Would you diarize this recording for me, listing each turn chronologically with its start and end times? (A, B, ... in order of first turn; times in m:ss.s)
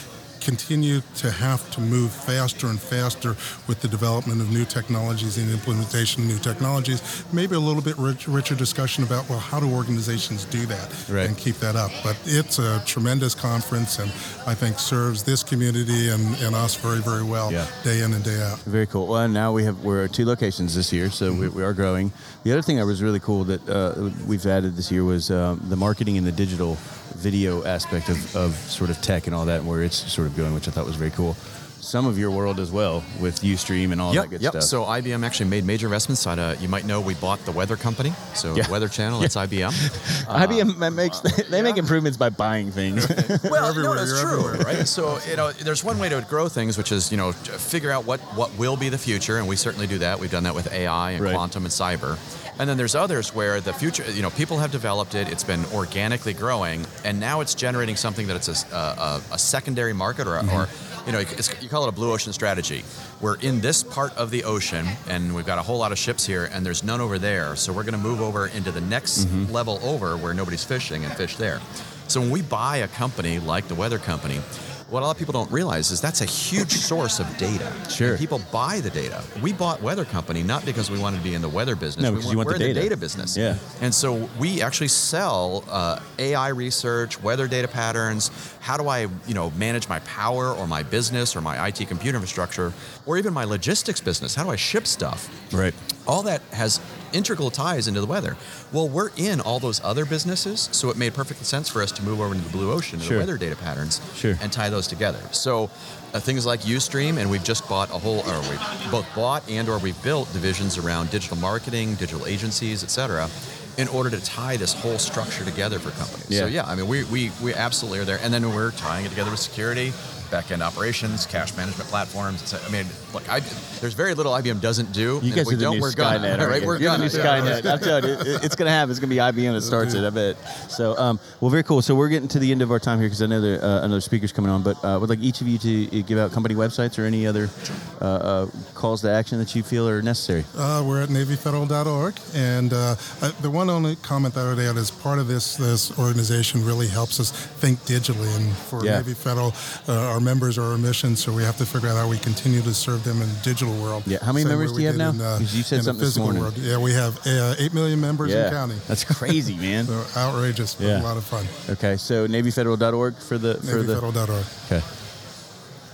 0:00.4-0:18.6 A
0:11.1-0:11.3 B
0:18.7-0:34.7 B
0:34.1-0:40.7 C
0:38.6-0:43.5 B
0:41.3-0:41.8 C
0:43.4-1:35.3 C
0:43.5-0:45.1 A
1:00.4-1:00.7 B
1:09.2-1:09.5 B
1:17.9-1:18.2 B
1:22.0-1:23.6 B
1:36.1-2:08.0 C
1:43.0-1:43.3 B
1:44.2-1:44.4 B
2:05.2-2:20.5 B
2:07.0-2:08.2 A
2:09.7-2:10.0 A
2:20.6-2:39.3 A
2:28.8-2:29.0 B
2:34.1-2:36.5 B
2:38.2-2:39.9 B
2:39.9-2:41.5 A
2:40.8-2:41.1 B
2:41.7-2:44.0 B
2:43.6-2:44.5 A